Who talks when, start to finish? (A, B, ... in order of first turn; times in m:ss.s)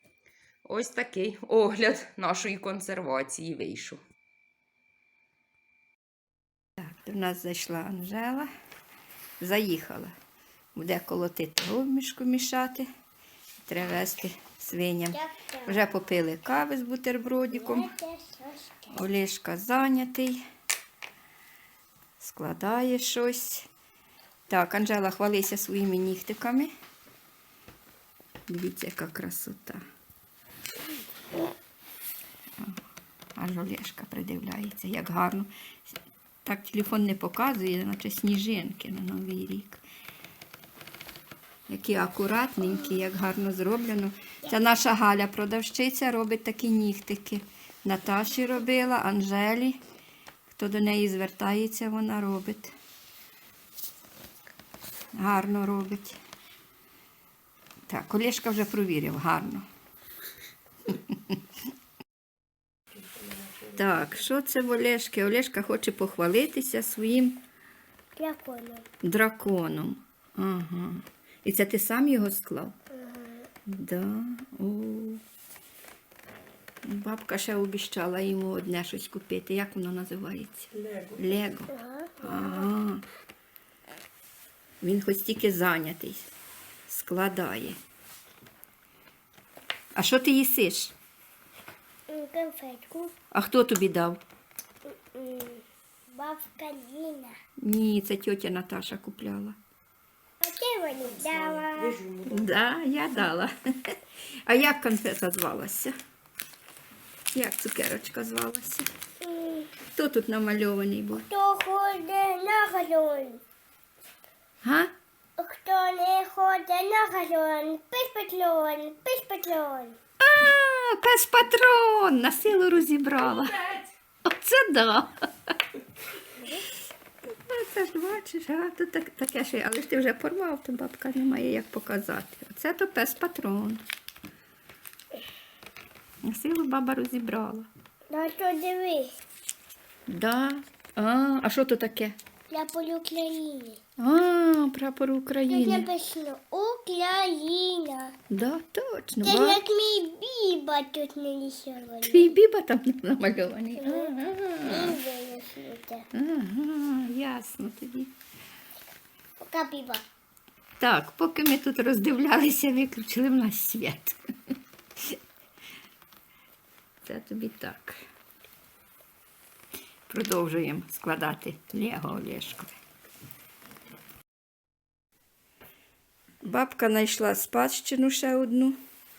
0:00.6-0:04.0 A
0:06.8-0:08.5 B
0:09.4-0:10.1 B
0:10.7-0:12.9 B
0:13.6-0:17.9 B
0:15.1-0:15.8 C
0:17.5-0:19.0 C
0:18.9-0:20.4 B
0:22.2-0:23.7 B
0:24.5-0:26.7 B
0:28.5-0:29.8 B
0:33.3-0:39.8 B
0:41.7-0:49.8 B
0:50.5-0:52.7 B
0:55.1-0:56.2 B
0:57.9-0:59.7 B
1:00.9-1:01.4 B
1:03.6-1:07.4 B
1:08.2-1:08.9 C
1:09.0-1:12.7 B
1:12.9-1:13.5 C
1:13.6-1:15.2 B
1:16.8-1:23.0 B
1:21.7-1:22.7 C
1:24.8-1:26.3 B
1:26.9-1:27.8 B
1:29.9-1:30.9 B
1:32.1-1:33.1 C
1:33.3-1:34.2 B
1:34.9-1:37.4 C
1:37.6-1:39.6 B
1:40.4-1:42.0 C
1:41.2-1:42.5 A
1:42.2-1:45.9 B
1:47.3-1:48.9 B
1:49.2-1:49.7 C
1:49.9-1:51.2 B
1:51.1-1:53.4 C
1:54.6-1:54.9 B
1:55.4-2:00.0 C
2:00.2-2:05.6 B
2:07.2-2:13.8 B
2:16.2-2:17.7 B
2:18.1-2:19.1 C
2:20.1-2:22.2 B
2:22.5-2:23.8 C
2:24.0-2:25.9 B
2:25.5-2:28.2 C
2:28.3-2:29.6 B
2:29.2-2:32.3 C
2:32.0-2:35.0 B
2:33.8-2:34.1 C
2:34.6-2:36.0 C
2:36.1-2:38.1 B
2:39.4-2:40.0 C
2:40.8-2:45.2 B
2:47.0-2:48.0 B
2:50.1-2:52.8 B
2:56.4-2:58.8 B